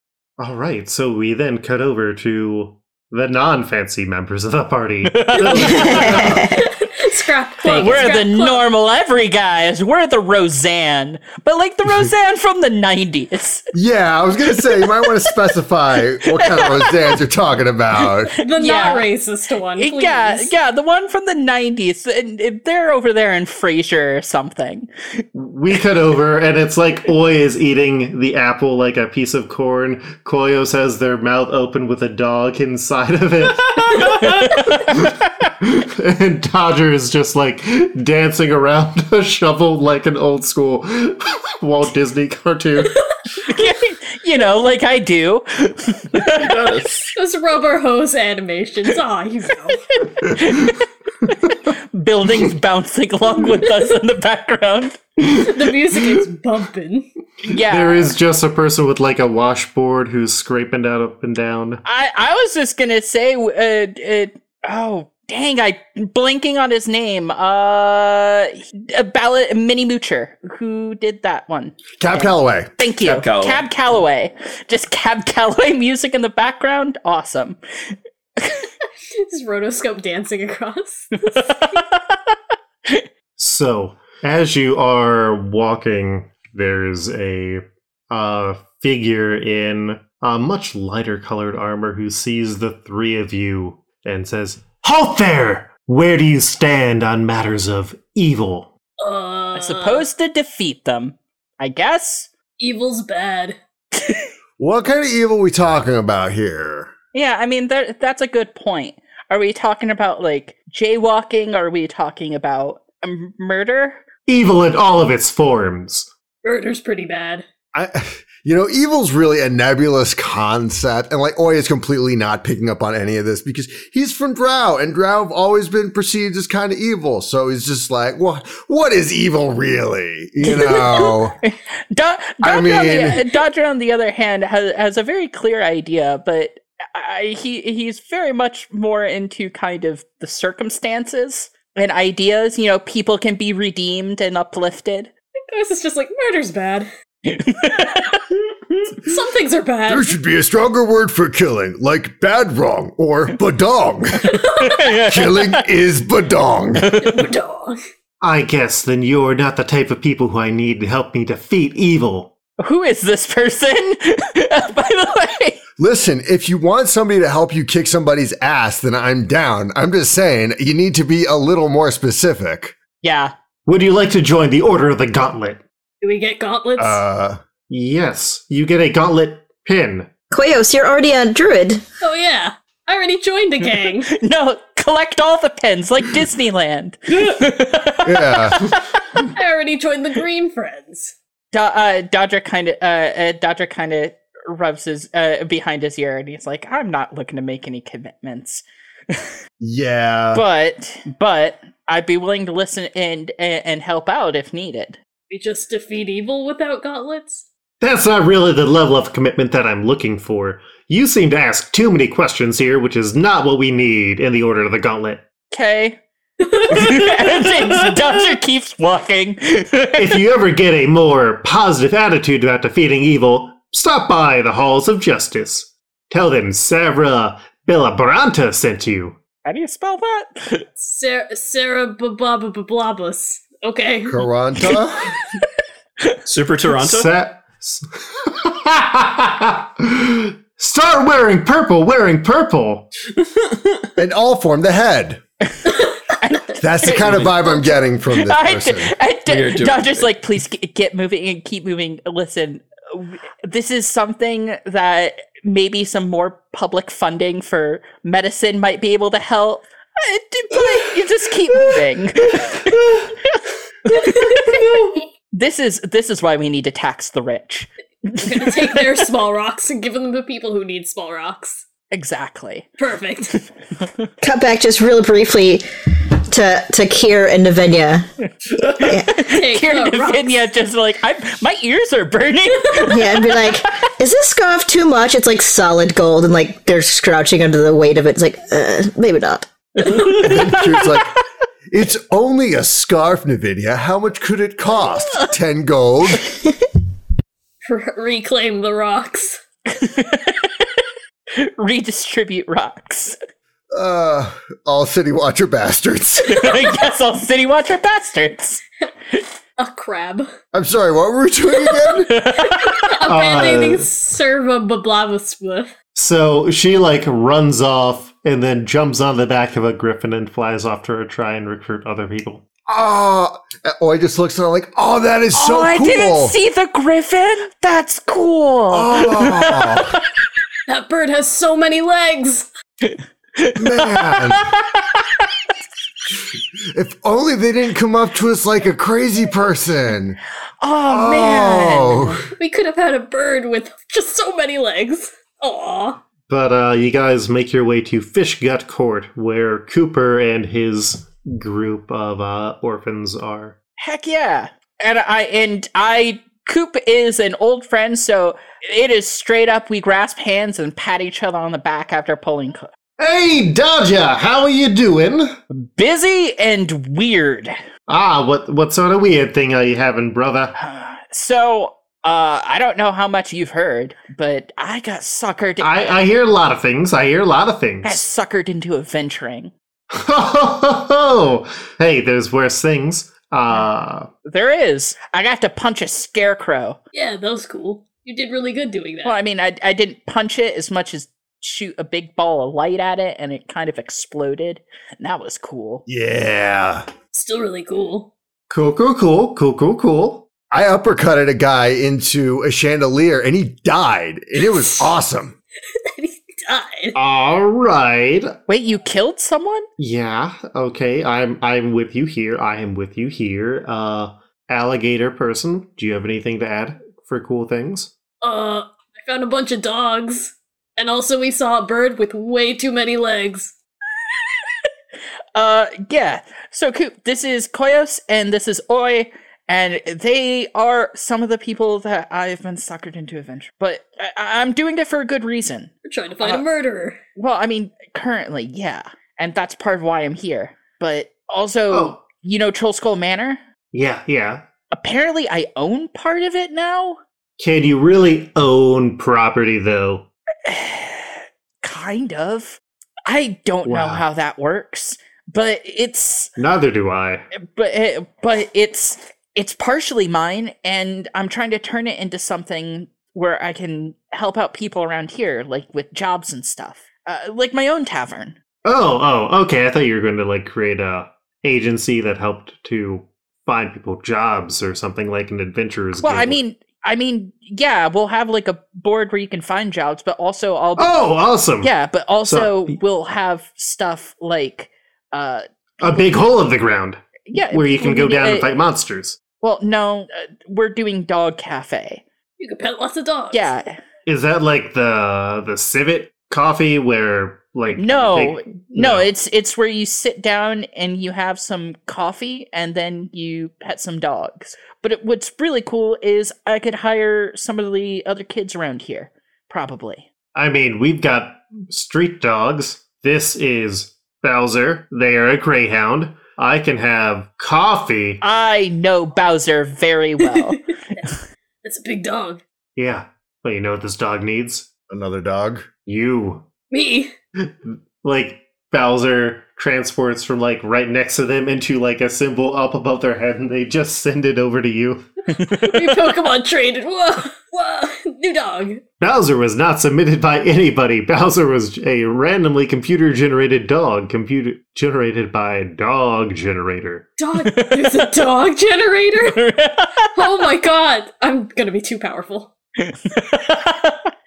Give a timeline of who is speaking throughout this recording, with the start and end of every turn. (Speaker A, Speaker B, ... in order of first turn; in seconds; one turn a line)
Speaker A: 0.4-6.4
Speaker B: 5.0-6.4
Speaker C: 5.7-6.7
Speaker D: 6.4-8.7
Speaker B: 7.6-13.7
Speaker E: 13.7-18.3
Speaker B: 14.7-15.3
Speaker B: 16.2-17.2
Speaker B: 18.1-19.1
Speaker D: 18.4-20.5
Speaker B: 19.8-25.2
Speaker A: 25.3-43.0
Speaker B: 34.0-34.8
Speaker B: 43.5-46.8
Speaker F: 46.1-47.1
Speaker D: 47.1-49.8
Speaker B: 49.9-55.2
Speaker D: 55.2-57.1
Speaker B: 57.4-58.1
Speaker A: 57.5-61.8
Speaker B: 61.8-77.6
Speaker E: 72.0-72.7
Speaker F: 73.0-73.6
Speaker B: 78.4-78.7
Speaker D: 79.2-81.1
Speaker B: 81.2-82.3
Speaker A: 83.4-98.7
Speaker D: 99.0-100.0
Speaker B: 99.5-102.3
Speaker D: 102.6-103.6
Speaker B: 104.0-104.2
Speaker E: 104.6-106.9
Speaker B: 107.1-114.0
Speaker A: 114.3-116.1
Speaker D: 116.4-117.4
Speaker E: 117.7-131.3
Speaker B: 130.4-145.1
Speaker E: 132.4-133.2
Speaker D: 145.5-146.9
Speaker B: 147.2-148.3
Speaker D: 149.0-150.1
Speaker E: 149.9-156.9
Speaker D: 154.3-154.8
Speaker B: 154.6-155.7
Speaker B: 156.8-157.2
Speaker D: 157.0-157.8
Speaker A: 158.2-162.3
Speaker B: 162.6-165.6
Speaker E: 165.8-172.8
Speaker B: 173.0-173.3
Speaker A: 173.7-175.6
Speaker D: 176.0-177.0
Speaker E: 176.8-177.4
Speaker A: 177.7-180.1
Speaker C: 180.3-181.8
Speaker D: 182.0-184.1
Speaker B: 183.6-189.2
Speaker E: 188.0-188.7
Speaker D: 189.3-191.1
Speaker B: 191.5-199.3
Speaker E: 199.6-200.4
Speaker B: 200.3-205.0
Speaker D: 205.3-207.5
Speaker A: 207.8-215.2
Speaker B: 215.5-220.2
Speaker D: 216.4-217.2
Speaker A: 219.9-229.2
Speaker B: 229.4-230.7
Speaker D: 230.8-234.2
Speaker E: 234.1-235.1
Speaker F: 236.2-237.1
Speaker A: 236.8-242.9
Speaker F: 243.4-243.7
Speaker E: 243.9-245.2
Speaker B: 245.5-268.9
Speaker D: 245.7-245.9
Speaker E: 246.6-248.9
Speaker F: 246.9-247.4
Speaker F: 249.3-250.1
Speaker D: 263.9-264.7
Speaker D: 268.2-271.6
Speaker B: 271.9-272.7
Speaker D: 272.8-273.4
Speaker B: 273.8-274.0
Speaker C: 274.2-278.1
Speaker B: 278.5-283.7
Speaker C: 278.8-279.2
Speaker D: 279.2-280.4
Speaker C: 282.8-289.5
Speaker B: 289.8-290.9
Speaker E: 289.8-291.1
Speaker E: 291.7-296.3
Speaker D: 297.6-299.4
Speaker B: 299.7-303.2
Speaker E: 303.7-306.6
Speaker B: 306.3-308.6
Speaker D: 309.6-310.3
Speaker E: 310.5-312.1
Speaker B: 312.1-313.0
Speaker D: 312.8-315.7
Speaker A: 313.0-313.9
Speaker A: 315.9-322.4
Speaker E: 322.7-326.4
Speaker B: 325.3-330.0
Speaker E: 328.7-329.9
Speaker D: 330.7-332.5
Speaker B: 332.8-335.2
Speaker E: 333.6-334.5
Speaker E: 336.7-340.2
Speaker B: 340.6-342.2
Speaker E: 340.9-342.2
Speaker D: 342.4-346.0
Speaker A: 346.3-353.6
Speaker B: 353.8-362.7
Speaker A: 363.0-365.4
Speaker B: 365.5-367.5
Speaker A: 367.9-370.6
Speaker B: 370.6-375.7
Speaker A: 375.6-378.0
Speaker B: 377.8-379.5
Speaker A: 379.9-384.1
Speaker B: 384.2-386.8
Speaker D: 386.9-389.1
Speaker B: 389.0-395.8
Speaker E: 395.9-396.9
Speaker D: 397.1-398.1
Speaker A: 398.5-400.3
Speaker E: 400.5-405.3
Speaker D: 405.9-406.9
Speaker A: 406.9-408.3
Speaker B: 408.5-409.6
Speaker A: 409.8-417.9
Speaker D: 418.2-423.5
Speaker B: 425.3-436.4
Speaker D: 435.8-437.0
Speaker B: 437.1-443.4
Speaker A: 441.7-442.0
Speaker A: 443.7-444.4
Speaker B: 444.7-447.0
Speaker A: 447.4-450.1
Speaker B: 450.4-456.3
Speaker A: 453.6-454.1
Speaker A: 456.4-457.3
Speaker B: 457.4-468.4
Speaker A: 468.6-476.4
Speaker B: 476.0-481.0
Speaker A: 480.8-481.7
Speaker B: 481.6-486.1
Speaker A: 482.2-482.8
Speaker A: 485.8-489.2
Speaker B: 487.3-488.5
Speaker B: 489.4-492.0
Speaker D: 492.4-493.5
Speaker B: 493.3-493.8
Speaker A: 494.1-499.1
Speaker B: 497.7-510.1
Speaker A: 510.3-518.2
Speaker B: 518.2-521.2
Speaker D: 521.6-522.4
Speaker A: 522.8-524.7
Speaker E: 524.9-525.7
Speaker A: 525.9-526.5
Speaker D: 526.7-527.1
Speaker A: 527.4-535.1
Speaker B: 535.3-536.1
Speaker D: 535.6-538.8
Speaker A: 539.0-547.1
Speaker D: 547.2-549.4
Speaker B: 547.4-548.3
Speaker B: 549.3-550.5
Speaker D: 550.1-552.5
Speaker B: 552.8-554.1